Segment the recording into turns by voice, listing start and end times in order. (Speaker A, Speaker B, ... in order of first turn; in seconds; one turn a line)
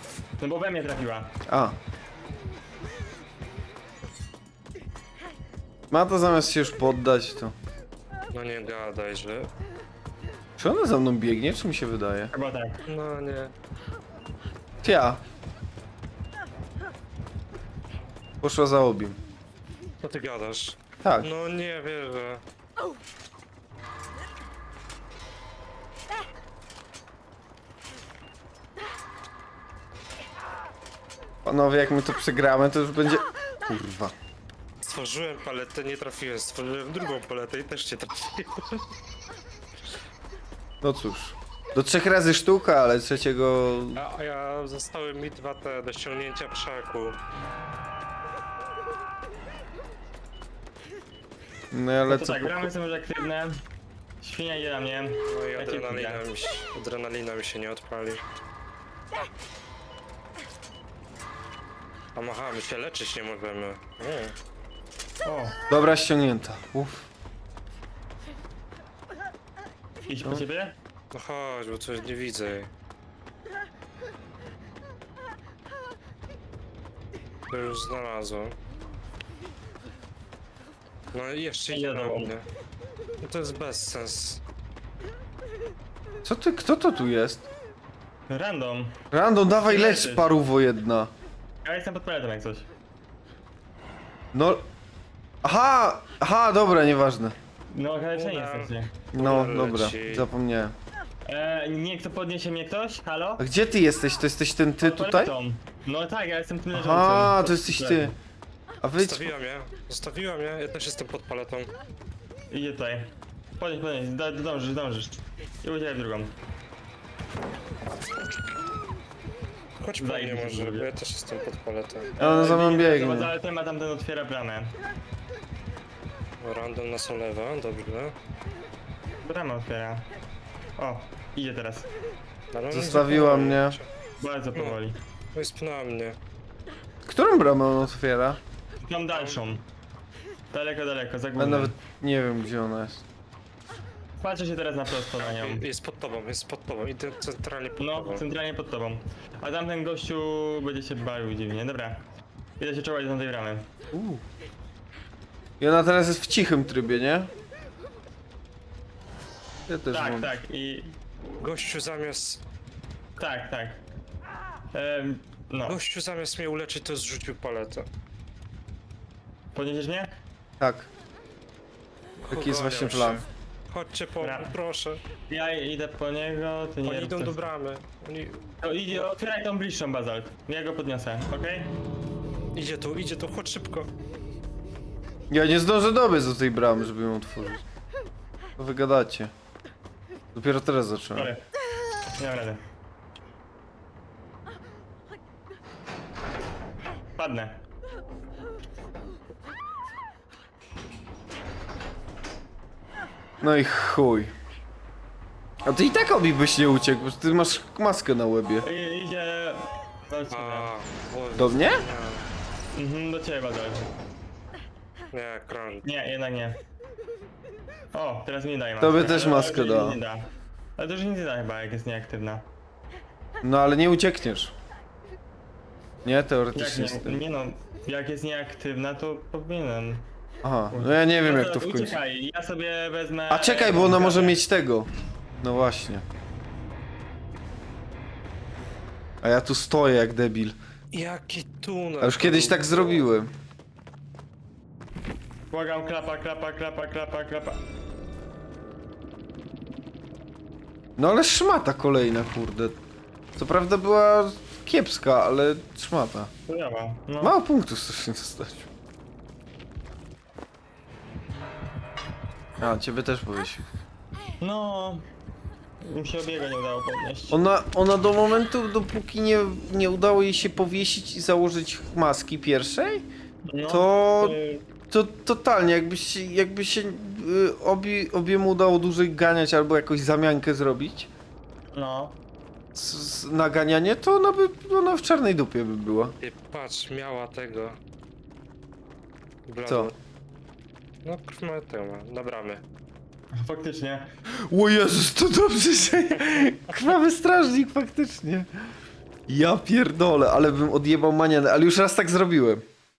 Speaker A: 0.4-1.3
Speaker B: 1.5-1.8
Speaker B: 5.9-7.5
Speaker C: 8.3-9.5
Speaker B: 10.6-12.3
Speaker A: 12.3-12.8
Speaker C: 12.9-13.5
Speaker B: 14.8-15.2
Speaker B: 18.4-19.2
Speaker C: 20.0-22.4
Speaker B: 21.0-21.3
Speaker B: 31.4-34.1
Speaker C: 34.8-38.9
Speaker B: 40.8-44.0
Speaker C: 44.0-47.2
Speaker B: 51.7-52.7
Speaker A: 52.1-53.6
Speaker A: 54.2-56.2
Speaker C: 55.3-58.2
Speaker C: 62.1-64.3
Speaker A: 65.2-65.6
Speaker B: 65.7-67.1
Speaker A: 70.1-70.8
Speaker C: 71.1-72.7
Speaker C: 77.5-78.5
Speaker C: 81.1-82.5
Speaker A: 81.7-82.3
Speaker C: 83.2-84.4
Speaker B: 86.2-87.5
Speaker A: 88.3-89.0
Speaker B: 89.1-91.1
Speaker A: 89.6-90.3
Speaker A: 91.6-92.7
Speaker B: 94.3-94.7
Speaker B: 95.4-97.4
Speaker A: 97.7-98.9
Speaker C: 98.1-100.3
Speaker B: 99.1-100.8
Speaker A: 101.3-103.5
Speaker B: 103.4-105.3
Speaker A: 104.8-108.2
Speaker B: 106.7-108.1
Speaker B: 108.8-109.3
Speaker C: 109.0-111.7
Speaker A: 112.5-116.3
Speaker C: 119.8-122.1
Speaker A: 120.0-120.9
Speaker B: 122.2-123.3
Speaker A: 122.2-124.8
Speaker C: 126.4-128.2
Speaker A: 129.2-130.1
Speaker A: 130.8-131.9
Speaker C: 132.5-133.9
Speaker B: 132.7-133.8
Speaker A: 134.2-135.0
Speaker C: 135.3-136.2
Speaker B: 137.1-138.4
Speaker A: 138.8-139.7
Speaker C: 139.1-139.4
Speaker A: 140.5-141.7
Speaker B: 141.4-143.1
Speaker A: 144.2-145.7
Speaker C: 145.1-148.2
Speaker A: 147.8-152.1
Speaker A: 152.6-153.7
Speaker B: 153.9-154.2
Speaker B: 155.6-157.3
Speaker B: 159.7-160.3
Speaker A: 159.9-161.0
Speaker C: 161.4-162.4
Speaker A: 163.2-163.8
Speaker A: 164.7-165.8
Speaker C: 165.7-167.9
Speaker A: 169.6-170.2
Speaker B: 170.6-170.9
Speaker C: 172.2-175.0
Speaker B: 172.3-173.2
Speaker A: 174.2-174.5
Speaker A: 175.3-177.4
Speaker C: 176.8-179.1
Speaker A: 178.6-181.7
Speaker C: 182.5-183.9
Speaker B: 185.3-187.6
Speaker B: 188.6-189.3
Speaker B: 190.3-191.3
Speaker A: 191.2-191.5
Speaker A: 192.2-192.6
Speaker A: 197.2-197.6
Speaker B: 203.4-204.3
Speaker B: 205.7-208.7
Speaker A: 208.6-210.7
Speaker C: 210.3-212.3
Speaker B: 211.4-211.8
Speaker A: 212.7-213.9
Speaker C: 215.1-215.9
Speaker A: 215.8-216.6
Speaker A: 217.9-222.5
Speaker B: 218.8-220.0
Speaker B: 223.4-224.5
Speaker B: 226.0-227.2
Speaker A: 226.5-230.1
Speaker B: 230.4-232.0
Speaker A: 230.7-234.4
Speaker B: 233.3-234.9
Speaker B: 235.4-236.0
Speaker B: 239.2-240.6
Speaker C: 240.9-243.1
Speaker B: 242.0-243.3
Speaker A: 245.5-247.6
Speaker B: 251.0-252.8
Speaker B: 253.4-256.3
Speaker A: 256.5-257.4
Speaker B: 257.2-258.7
Speaker B: 262.6-263.7
Speaker A: 264.4-265.1
Speaker A: 265.8-267.4
Speaker B: 267.3-273.1
Speaker A: 273.5-273.9
Speaker B: 273.7-281.1
Speaker A: 281.7-282.2
Speaker B: 282.8-286.1
Speaker C: 286.2-287.8
Speaker C: 289.5-290.0
Speaker B: 289.7-289.9
Speaker C: 291.0-292.6
Speaker A: 293.3-294.1
Speaker B: 294.5-298.5
Speaker B: 299.3-302.6